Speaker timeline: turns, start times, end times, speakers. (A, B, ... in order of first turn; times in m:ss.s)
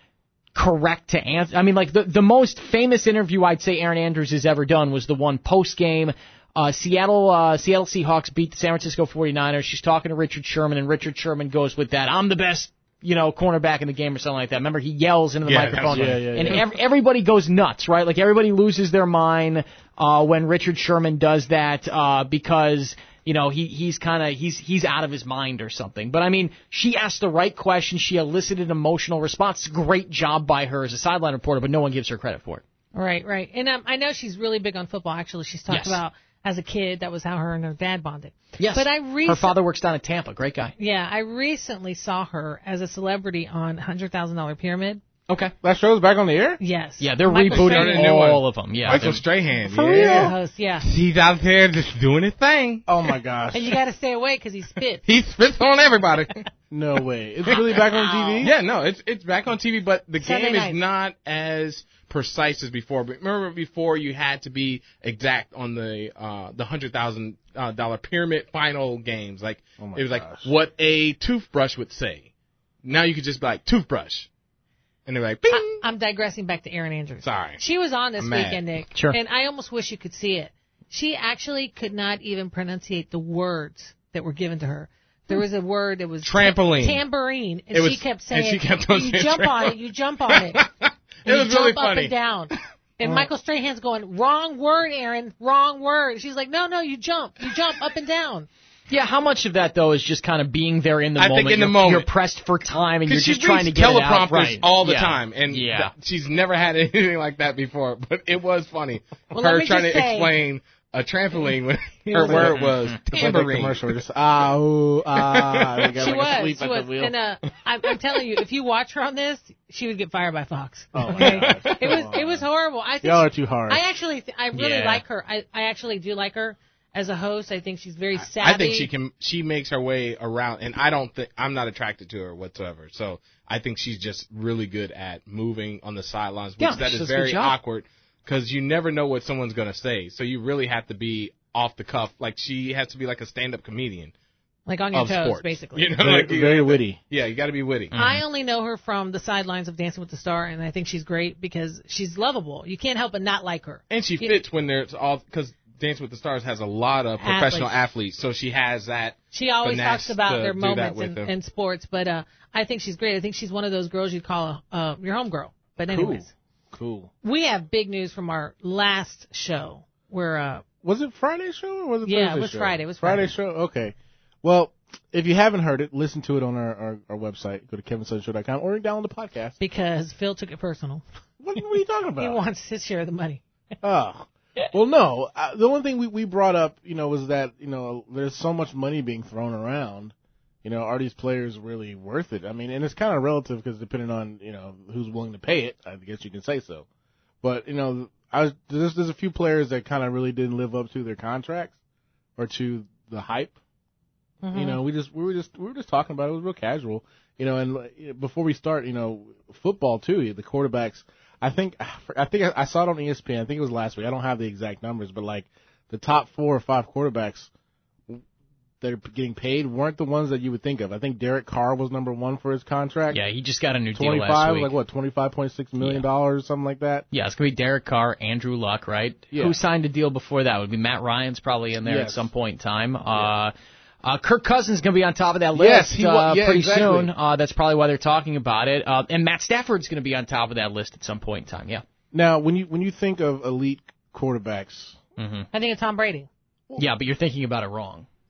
0:00.5-0:32.6 A
0:15.4-0:16.6 B
0:15.9-0:16.6 C
0:32.9-0:39.6 D
0:35.7-0:36.0 A
0:38.6-0:40.7 A
0:40.8-0:45.0 D
0:45.3-0:45.5 A
0:45.6-0:46.6 C
0:46.6-0:48.2 D
0:47.0-0:49.2 A
0:47.5-0:52.9 B
0:49.6-0:50.9 D
0:49.8-0:50.3 C
0:52.9-0:53.7 C
0:53.5-0:55.0 D
0:55.0-0:56.5 B
0:56.7-0:58.5 C
0:57.5-1:12.3 B
1:00.2-1:00.8 D
1:09.8-1:10.5 C
1:12.8-1:14.3 B
1:15.1-1:15.8 B
1:15.5-1:30.6 D
1:17.2-1:17.6 B
1:18.2-1:18.6 B
1:18.9-1:19.2 A
1:26.2-1:27.0 B
1:27.7-1:29.8 B
1:30.3-1:32.6 B
1:31.2-1:38.5 D
1:38.9-1:45.9 A
1:41.2-1:42.1 B
1:43.1-1:53.9 B
1:49.3-1:50.3 D
1:52.1-1:52.5 D
1:52.2-1:52.6 C
1:52.5-1:53.0 A
1:53.1-1:57.1 C
1:55.2-1:55.9 B
1:55.9-2:08.9 D
2:01.0-2:02.5 C
2:01.2-2:02.0 B
2:03.0-2:03.8 C
2:04.5-2:05.0 A
2:08.2-2:24.1 B
2:16.6-2:17.6 A
2:24.7-2:26.0 D
2:24.9-2:27.9 B
2:26.0-2:27.0 C
2:27.9-2:28.2 A
2:28.0-2:34.4 D
2:33.9-2:41.3 B
2:37.2-2:37.8 D
2:39.3-2:46.3 D
2:45.9-2:47.1 C
2:47.2-2:50.7 D
2:50.8-2:59.6 C
2:52.0-2:53.3 D
2:59.6-3:01.0 D
3:01.4-3:02.4 C
3:02.2-3:03.4 D
3:03.8-3:16.9 C
3:17.4-3:21.8 C
3:22.4-3:23.6 C
3:24.4-3:24.8 D
3:24.5-3:37.5 C
3:38.8-3:43.2 C
3:43.1-3:44.7 A
3:43.9-3:47.1 C
3:45.8-3:46.0 A
3:47.1-4:01.8 A
3:51.8-3:52.3 C
3:55.6-3:57.1 C
4:02.1-4:05.0 C
4:05.2-4:05.5 A
4:05.5-4:06.3 D
4:06.8-4:08.1 A